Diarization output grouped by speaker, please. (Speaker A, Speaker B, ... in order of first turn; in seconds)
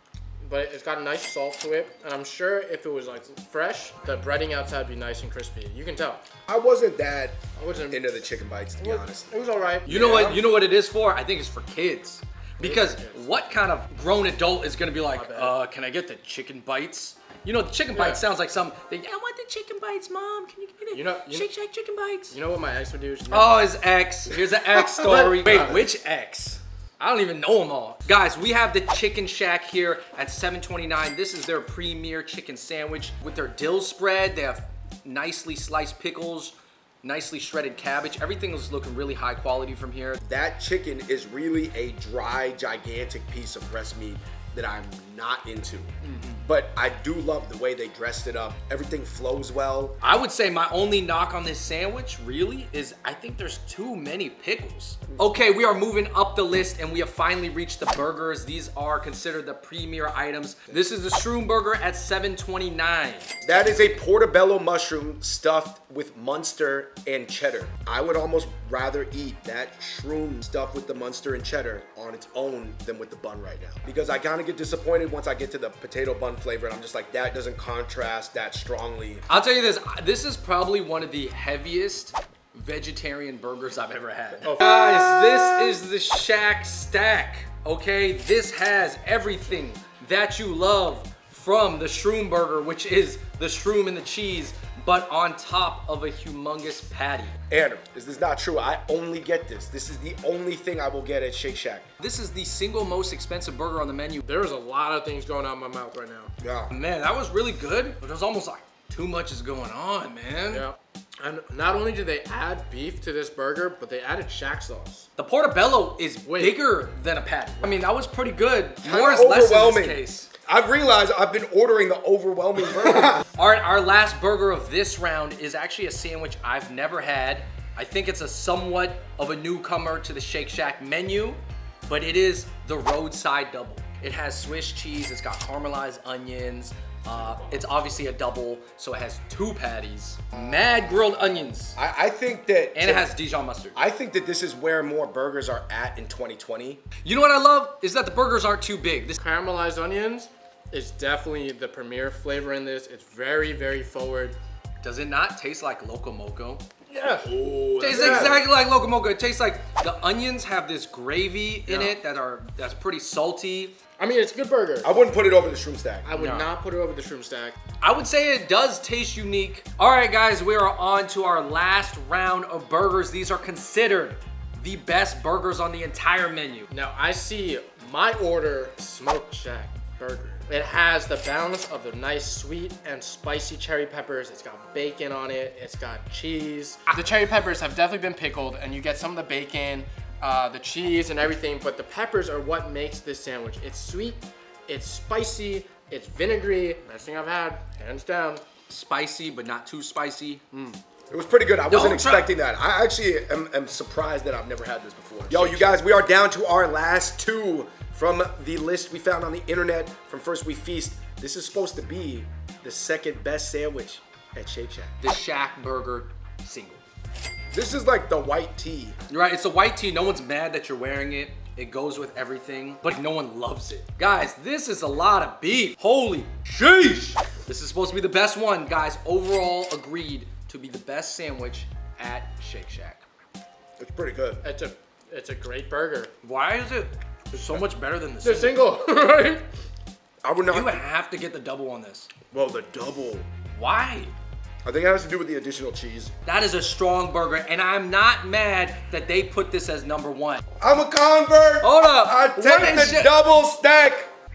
Speaker A: 0.4-6.2, 7.5-8.2, 8.8-10.4, 12.6-13.2, 15.1-15.6, 17.9-18.2, 20.9-21.5, 22.3-23.7, 24.7-25.8, 84.4-84.8, 104.2-106.3, 110.5-115.1, 116.2-116.6, 149.2-154.4, 156.9-158.4, 161.7-162.0, 164.0-165.0, 166.0-167.6, 176.7-198.4, 200.5-200.8, 234.4-236.1, 238.2-239.4
Speaker B: 6.5-9.3, 9.8-10.4, 40.2-45.9, 46.4-50.0, 63.4-79.2, 97.5-101.8, 106.4-106.7, 118.8-123.2, 141.8-143.1, 143.7-146.8, 157.2-158.4, 164.8-166.1, 201.1-215.0, 217.5-219.0, 233.8-234.4, 240.2-240.8, 242.3-243.3, 244.6-246.1, 250.6-254.1
Speaker C: 9.9-22.3, 23.3-40.2, 50.0-64.0, 79.3-97.3, 102.0-104.3, 106.7-110.7, 115.2-120.3, 123.1-141.8, 142.7-143.8, 147.0-149.2, 154.8-156.6, 157.8-163.8, 166.1-166.5, 167.8-176.7, 198.7-200.4, 201.7-202.3, 205.3-205.7, 215.0-216.8, 219.1-233.0, 236.2-238.6, 240.5-242.1, 243.6-244.1, 246.2-250.4, 251.6-253.1